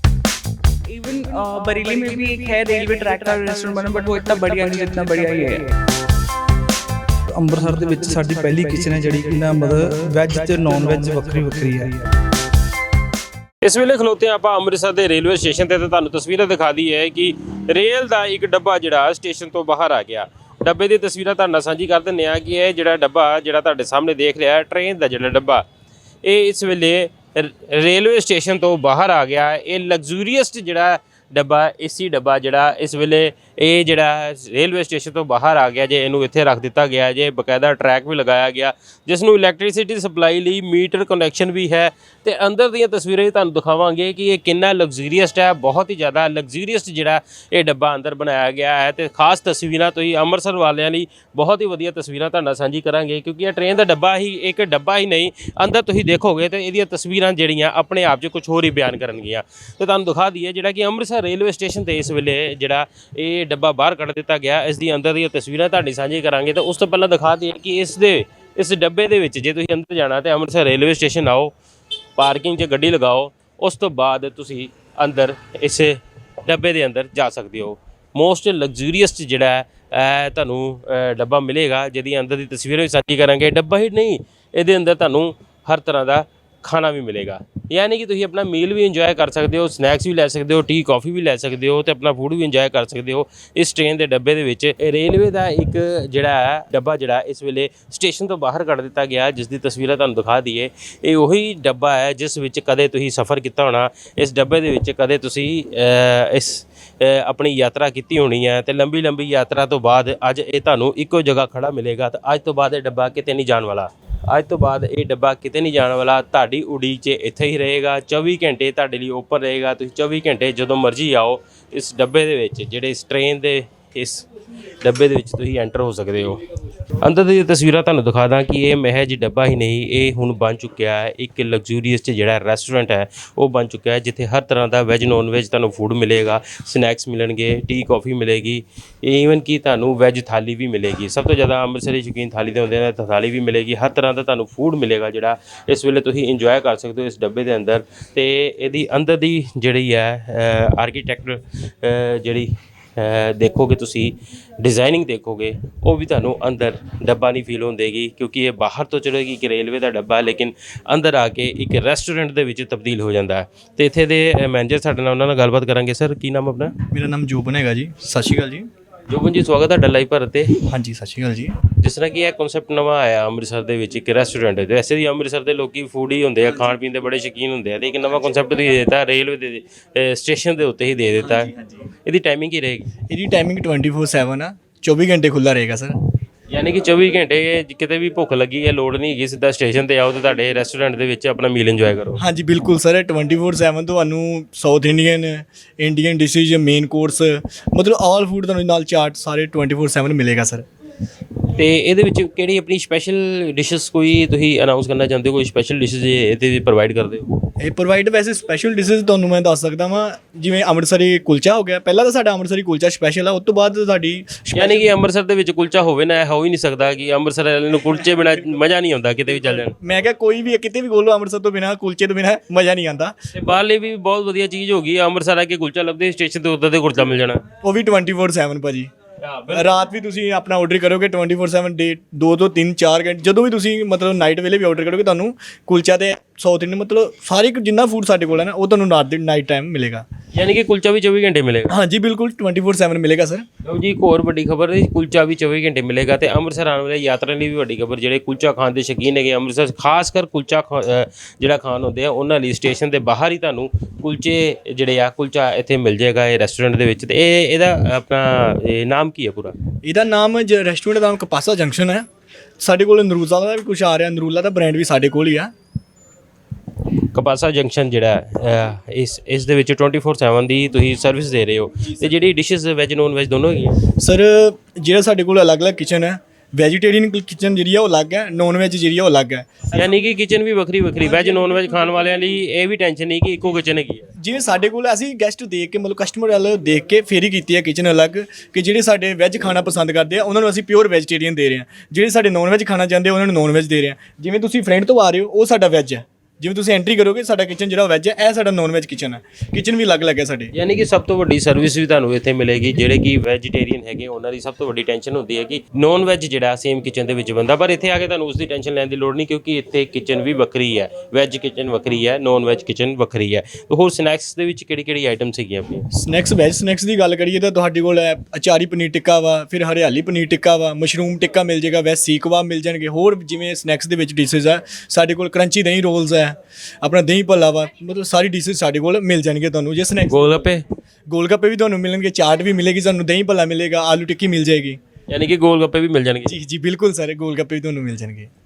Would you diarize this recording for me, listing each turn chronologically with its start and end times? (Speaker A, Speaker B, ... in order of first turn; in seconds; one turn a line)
Speaker A: 0.8-5.7
Speaker B: 7.4-12.0
Speaker C: 13.6-25.6
Speaker C: 26.2-71.5
Speaker C: 72.2-124.3
Speaker C: 124.8-126.4
Speaker C: 127.0-166.7
Speaker D: 166.9-168.7
Speaker C: 169.1-170.6
Speaker D: 170.7-171.6
Speaker C: 171.7-181.5
Speaker D: 181.2-181.8
Speaker C: 182.0-182.9
Speaker D: 183.1-186.0
Speaker C: 186.5-192.2
Speaker D: 192.2-200.7
Speaker C: 201.5-207.2
Speaker D: 207.6-214.9
Speaker C: 214.5-219.7
Speaker D: 219.5-223.1
Speaker C: 223.3-227.4
Speaker D: 227.6-228.9
Speaker C: 229.2-229.8
Speaker D: 229.5-240.1
Speaker C: 240.3-241.8
Speaker D: 241.7-243.4
Speaker C: 243.6-259.6
Speaker D: 259.8-262.1
Speaker D: 262.6-265.5
Speaker C: 267.1-273.8
Speaker D: 274.0-279.9
Speaker C: 279.7-284.1
Speaker D: 284.2-300.5
Speaker C: 300.5-315.8
Speaker D: 315.9-330.3
Speaker C: 330.1-330.6
Speaker D: 331.1-334.8
Speaker C: 335.1-336.4
Speaker D: 336.3-338.3